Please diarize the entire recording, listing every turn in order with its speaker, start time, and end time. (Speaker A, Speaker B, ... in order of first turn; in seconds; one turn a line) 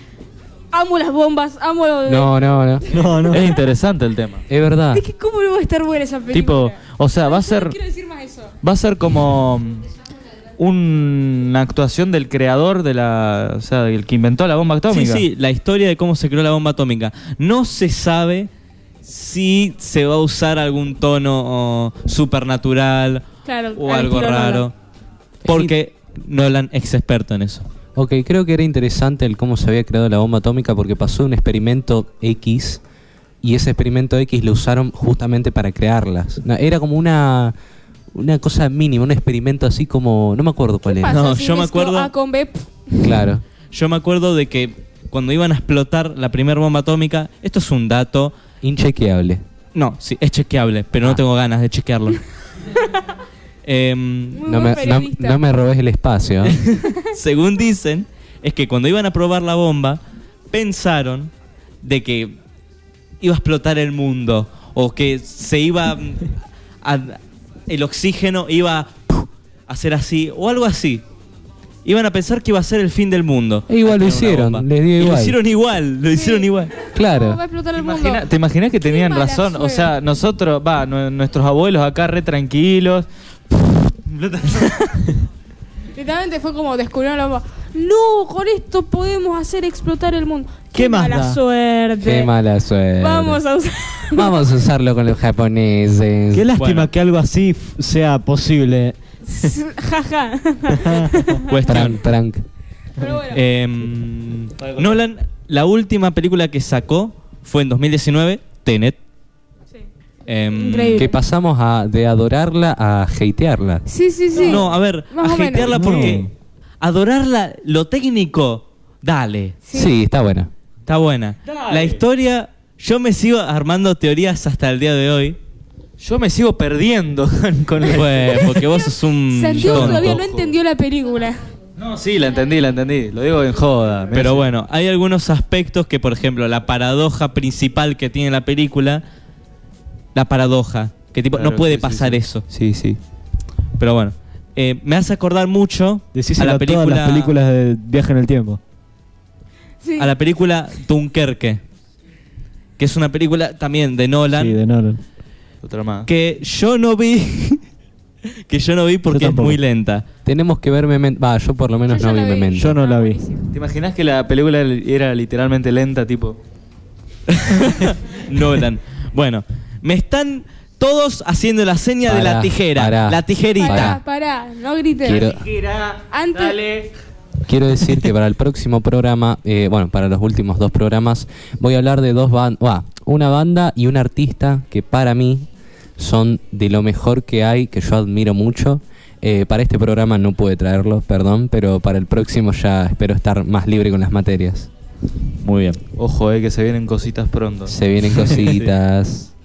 Speaker A: 0.7-3.6
Speaker B: 2.0-2.9
Speaker C: 2.9-3.5
Speaker D: 3.3-4.4
Speaker B: 4.5-5.0
Speaker A: 4.9-8.5
Speaker D: 6.3-7.8
Speaker D: 8.6-9.9
Speaker D: 10.6-15.3
Speaker E: 14.9-18.5
Speaker E: 19.0-24.7
Speaker A: 23.4-24.7
Speaker B: 25.4-25.7
Speaker E: 25.4-27.6
Speaker B: 27.9-32.8
Speaker B: 33.4-37.5
Speaker B: 38.1-41.2
Speaker A: 40.8-43.3
Speaker E: 41.1-42.1
Speaker B: 43.0-43.4
Speaker E: 43.7-48.3
Speaker B: 48.6-49.4
Speaker E: 49.7-52.2
Speaker A: 52.7-53.0
Speaker E: 53.6-54.5
Speaker A: 54.3-55.4
Speaker B: 54.5-56.6
Speaker E: 56.5-60.0
Speaker A: 56.8-57.1
Speaker E: 60.5-61.3
Speaker E: 61.8-62.4
Speaker E: 63.2-71.0
Speaker E: 71.8-76.7
Speaker B: 73.7-75.3
Speaker A: 76.1-78.2
Speaker B: 76.9-77.4
Speaker D: 77.7-85.1
Speaker A: 78.8-79.9
Speaker A: 85.9-92.3
Speaker C: 90.7-91.4
Speaker B: 92.0-93.4
Speaker A: 93.0-94.5
Speaker B: 94.1-96.5
Speaker C: 96.3-98.9
Speaker E: 96.5-96.9
Speaker A: 99.2-101.5
Speaker C: 100.8-101.1
Speaker E: 101.5-102.0
Speaker B: 101.7-102.5
Speaker A: 103.0-103.4
Speaker E: 103.3-109.0
Speaker D: 104.6-105.0
Speaker E: 110.3-111.1
Speaker A: 110.5-111.2
Speaker B: 110.9-113.8
Speaker A: 113.8-115.7
Speaker D: 114.4-114.6
Speaker E: 114.4-116.3
Speaker C: 115.6-116.3
Speaker E: 116.8-119.5
Speaker A: 119.6-120.0
Speaker B: 119.7-120.5
Speaker E: 120.9-125.4
Speaker D: 121.5-122.0
Speaker D: 126.0-128.6
Speaker E: 127.8-130.2
Speaker A: 128.4-131.5
Speaker B: 129.6-130.0
Speaker D: 129.6-130.5
Speaker D: 131.8-134.5
Speaker E: 134.1-139.0
Speaker E: 140.1-142.4
Speaker D: 141.3-143.0
Speaker E: 143.8-147.3
Speaker C: 146.1-148.6
Speaker A: 149.8-150.1
Speaker E: 150.0-151.6
Speaker E: 152.8-154.6
Speaker C: 154.3-155.0
Speaker D: 155.6-156.1
Speaker E: 156.1-157.6
Speaker E: 158.5-160.0
Speaker C: 159.1-159.6
Speaker B: 160.2-162.7
Speaker A: 161.9-163.5
Speaker C: 162.5-163.2
Speaker D: 163.5-166.4
Speaker E: 167.3-174.0
Speaker B: 172.1-174.0
Speaker A: 173.6-175.4
Speaker B: 175.0-175.5
Speaker D: 175.1-176.9
Speaker A: 176.1-176.6
Speaker B: 177.4-194.7
Speaker E: 195.4-195.8
Speaker D: 195.8-198.7
Speaker B: 197.7-199.3